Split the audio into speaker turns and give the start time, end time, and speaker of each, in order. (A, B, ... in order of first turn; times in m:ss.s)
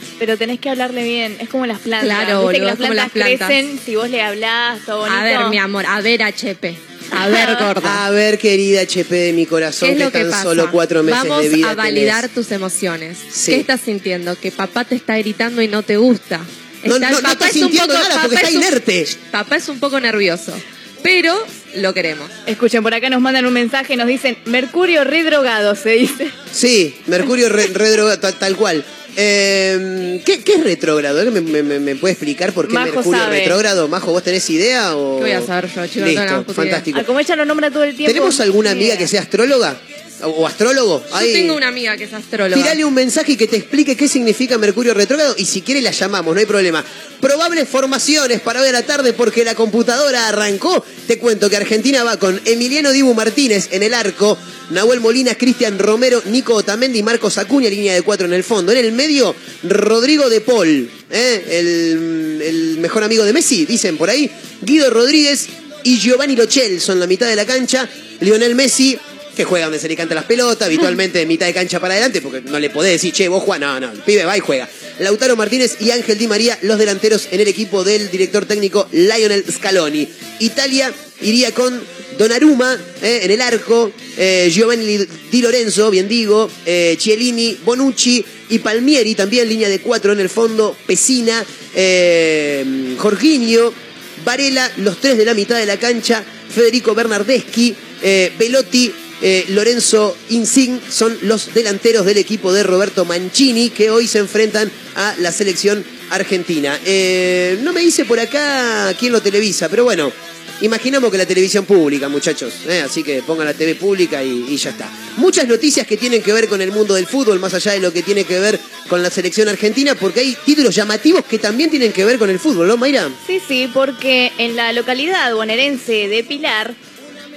0:00.2-0:05.6 A
0:02.0-0:03.6 B
0:05.1-0:08.0 B
0:07.2-0:07.7 A
0:07.4-0:12.2 C
0:09.8-0:22.3 B
0:13.3-0:13.7 C
0:16.9-0:19.1 C
0:22.5-0:26.3 A
0:26.5-0:37.1 C
0:32.6-0:33.6 A
0:35.2-0:36.8 B
0:36.9-0:39.1 A
0:38.0-0:41.6 C
0:41.1-0:42.8 B
0:42.5-2:03.2 C
2:03.2-2:06.8 A